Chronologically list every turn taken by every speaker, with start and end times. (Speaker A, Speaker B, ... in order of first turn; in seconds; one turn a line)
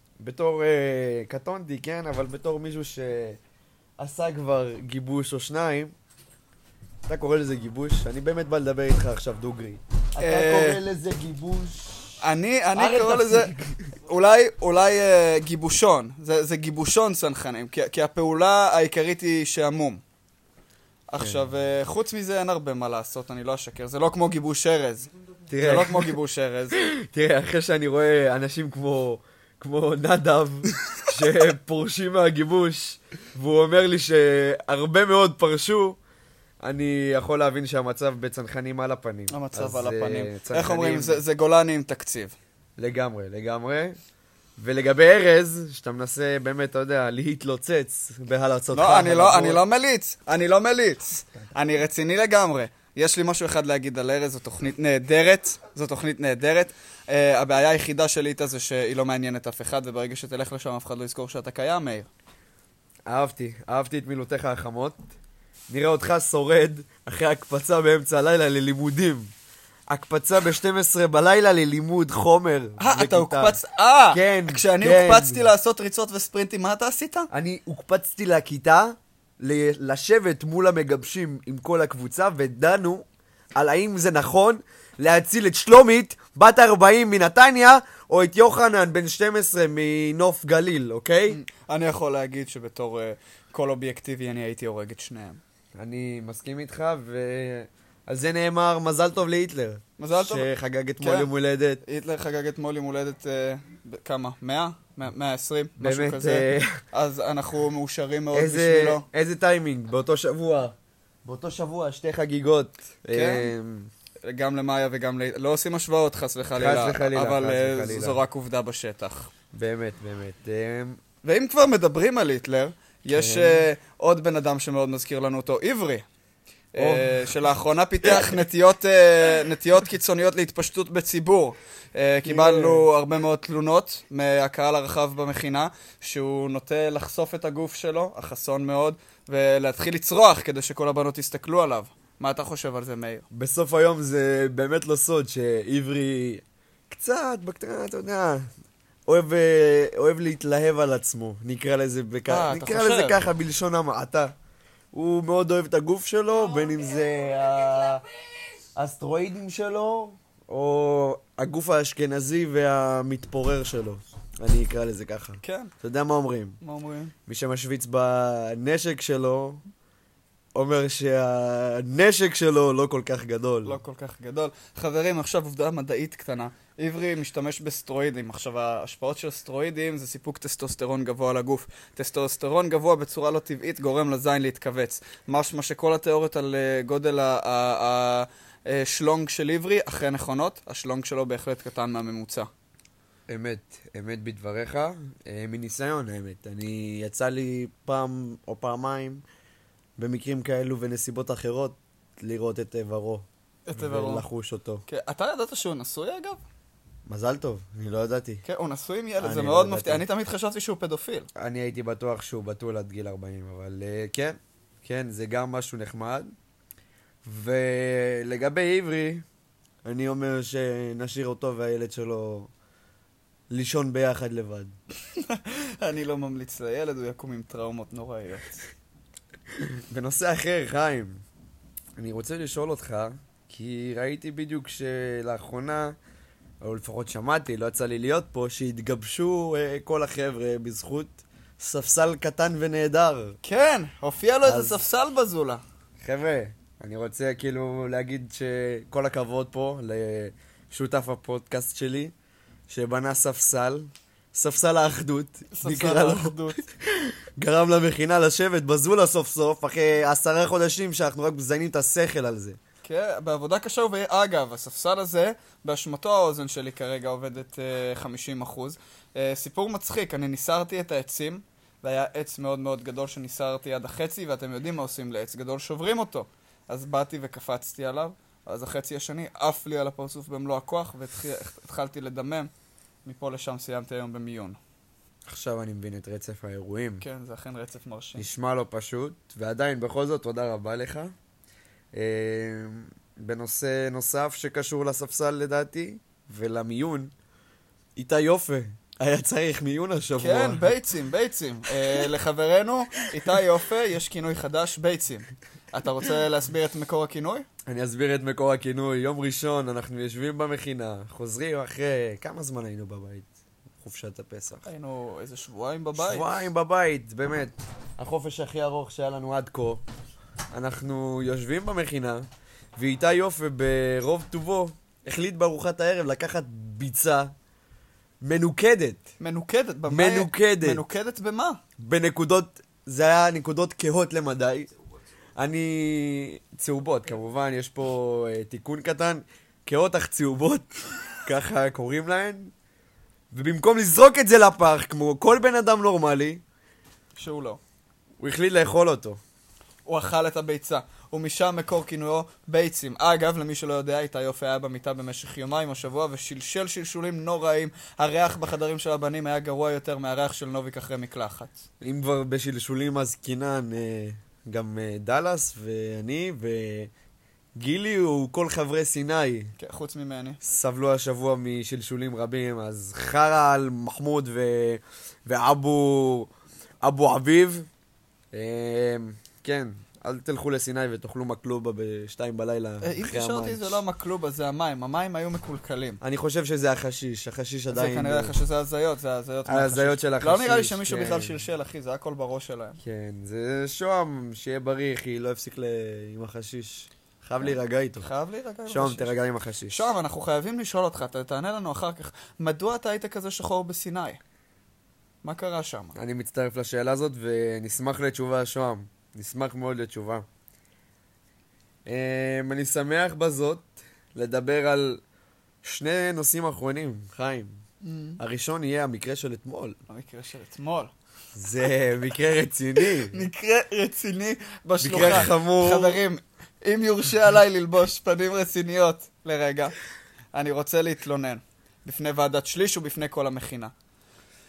Speaker A: 0.2-3.4
Speaker A: 4.0-5.9
Speaker A: 7.0-12.2
Speaker B: 10.2-10.8
Speaker B: 12.2-20.0
Speaker A: 12.7-13.8
Speaker B: 21.1-26.8
Speaker A: 21.2-21.4
Speaker A: 25.5-26.1
Speaker A: 26.7-36.0
Speaker A: 36.6-41.2
Speaker B: 39.3-42.3
Speaker A: 42.8-44.0
Speaker A: 44.6-49.6
Speaker B: 48.7-62.1
Speaker A: 63.0-65.0
Speaker A: 65.7-69.3
Speaker A: 69.9-73.6
Speaker B: 72.8-77.3
Speaker A: 74.1-75.5
Speaker A: 77.3-83.0
Speaker A: 83.5-91.4
Speaker B: 91.3-95.4
Speaker A: 95.8-101.8
Speaker B: 100.0-100.5
Speaker B: 101.0-101.3
Speaker B: 101.8-109.0
Speaker A: 105.8-106.8
Speaker A: 108.3-110.7
Speaker A: 111.2-113.9
Speaker B: 113.1-113.5
Speaker B: 114.2-119.3
Speaker A: 116.5-118.2
Speaker A: 119.5-121.0
Speaker B: 121.2-126.0
Speaker A: 123.1-123.6
Speaker B: 126.7-143.2
Speaker A: 126.8-127.3
Speaker A: 128.0-128.3
Speaker A: 132.2-132.8
Speaker A: 143.3-148.4
Speaker A: 149.1-154.3
Speaker B: 152.3-153.2
Speaker A: 154.9-158.0
Speaker A: 158.7-166.6
Speaker B: 165.4-165.7
Speaker B: 166.6-167.1
Speaker A: 167.3-169.6
Speaker A: 170.5-173.8
Speaker B: 173.6-192.5
Speaker A: 193.3-199.2
Speaker A: 200.0-204.8
Speaker B: 203.7-204.2
Speaker B: 204.9-206.4
Speaker A: 207.1-208.4
Speaker B: 208.4-211.3
Speaker A: 209.2-210.1
Speaker A: 211.4-216.3
Speaker A: 217.2-219.2
Speaker A: 219.8-222.5
Speaker A: 223.5-224.7
Speaker B: 225.1-228.7
Speaker A: 229.9-231.2
Speaker A: 232.0-235.9
Speaker A: 236.6-243.4
Speaker B: 243.4-245.6
Speaker A: 244.4-244.8
Speaker A: 246.0-252.1
Speaker A: 252.7-262.6
Speaker B: 255.5-256.6
Speaker B: 262.8-282.5
Speaker B: 283.0-284.6
Speaker A: 285.2-287.0
Speaker B: 287.0-288.3
Speaker A: 288.1-291.1
Speaker A: 291.9-297.1
Speaker A: 297.9-300.6
Speaker B: 300.2-307.4
Speaker A: 307.7-313.3
Speaker A: 313.8-314.7
Speaker B: 314.6-316.4
Speaker A: 315.9-319.8
Speaker A: 320.5-322.2
Speaker A: 322.8-327.3
Speaker A: 328.2-329.0
Speaker B: 329.2-331.6
Speaker A: 329.9-330.8
Speaker A: 331.8-334.7
Speaker A: 335.4-340.7
Speaker A: 341.2-342.5
Speaker A: 343.3-346.4
Speaker B: 347.1-347.6
Speaker A: 348.2-349.2
Speaker B: 349.9-361.6
Speaker A: 361.8-366.9
Speaker A: 367.6-369.5
Speaker B: 369.6-370.4
Speaker A: 370.4-376.3
Speaker A: 376.8-377.7
Speaker A: 378.3-383.8
Speaker B: 382.8-386.0
Speaker A: 386.0-388.4
Speaker B: 387.7-392.8
Speaker A: 389.4-391.4
Speaker A: 392.8-398.1
Speaker B: 397.4-399.1
Speaker A: 398.7-399.9
Speaker B: 399.7-404.2
Speaker B: 405.2-405.9
Speaker A: 405.9-410.2
Speaker A: 411.9-415.0
Speaker A: 415.6-417.6
Speaker B: 417.8-418.2
Speaker A: 418.2-419.8
Speaker B: 419.9-420.9
Speaker A: 421.3-423.2
Speaker B: 422.8-429.7
Speaker A: 424.8-426.0
Speaker B: 430.3-433.7